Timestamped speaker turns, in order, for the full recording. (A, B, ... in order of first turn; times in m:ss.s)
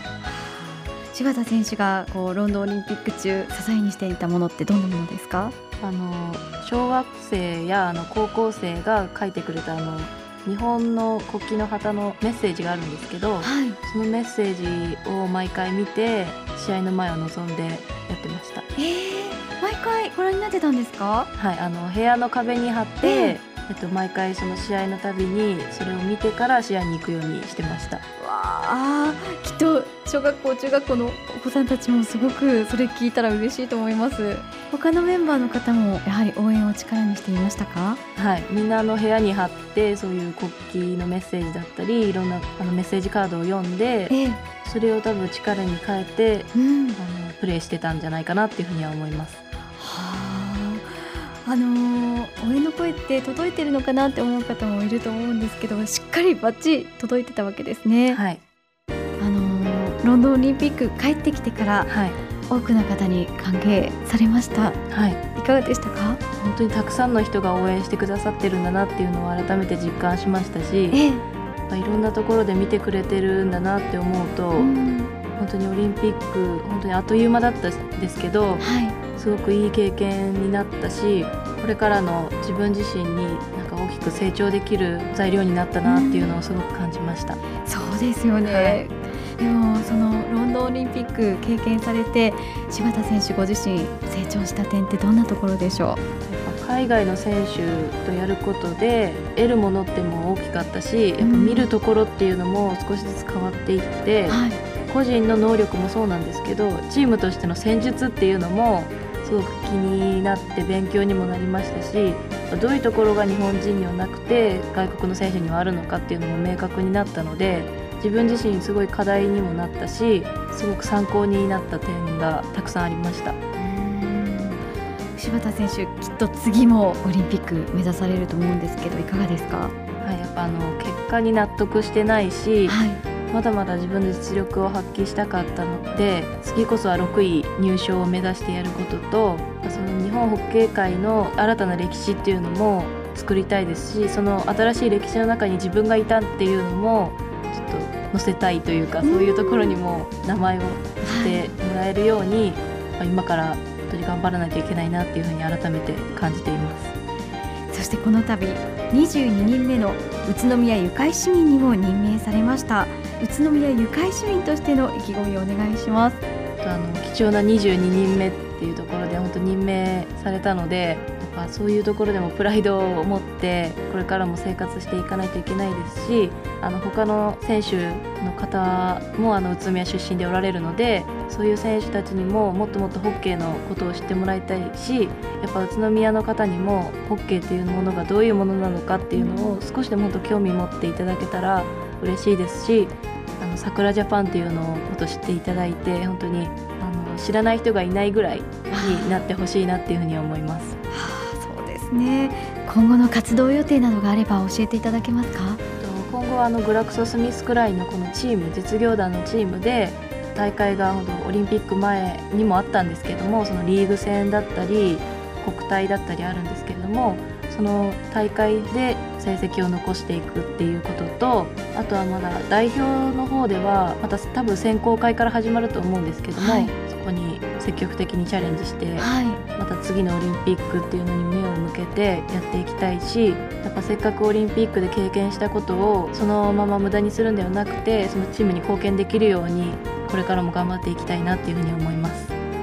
0:00.2-0:05.5 A
0:05.8-0:18.6 B
0:13.4-0:13.8 A
0:18.8-0:21.3 A
0:21.4-0:28.0 B
0:23.0-0:23.4 A
0:28.2-0:38.0 A
0:38.1-0:49.4 B
0:44.1-0:44.4 A
0:46.5-0:47.0 A
0:49.8-0:58.2 A
0:58.1-0:58.4 B
0:59.2-1:01.9 A
1:01.8-1:02.2 B
1:02.5-1:04.8 A
1:04.9-1:05.2 B
1:05.3-1:06.2 A
1:06.4-1:11.0 B
1:10.9-1:11.2 A
1:11.7-1:14.7 B
1:14.6-1:15.1 A
1:15.4-1:27.4 B
1:18.6-1:19.0 A
1:25.8-1:26.4 A
1:27.6-1:36.0 A
1:28.4-1:28.8 B
1:36.2-2:03.4 B
1:41.2-1:41.7 A
1:44.3-1:44.6 A
2:03.6-2:04.6 A
2:05.2-2:09.7 A
2:10.0-2:12.8 B
2:12.6-2:13.0 A
2:13.3-2:36.9 B
2:29.0-2:29.8 A
2:31.0-2:31.5 A
2:37.7-2:46.2 A
2:46.6-3:20.8 B
3:09.1-3:09.6 A
3:18.7-3:19.2 A
3:20.9-3:25.6 A
3:25.8-4:02.3 B
3:46.4-3:46.7 A
3:49.0-3:49.4 A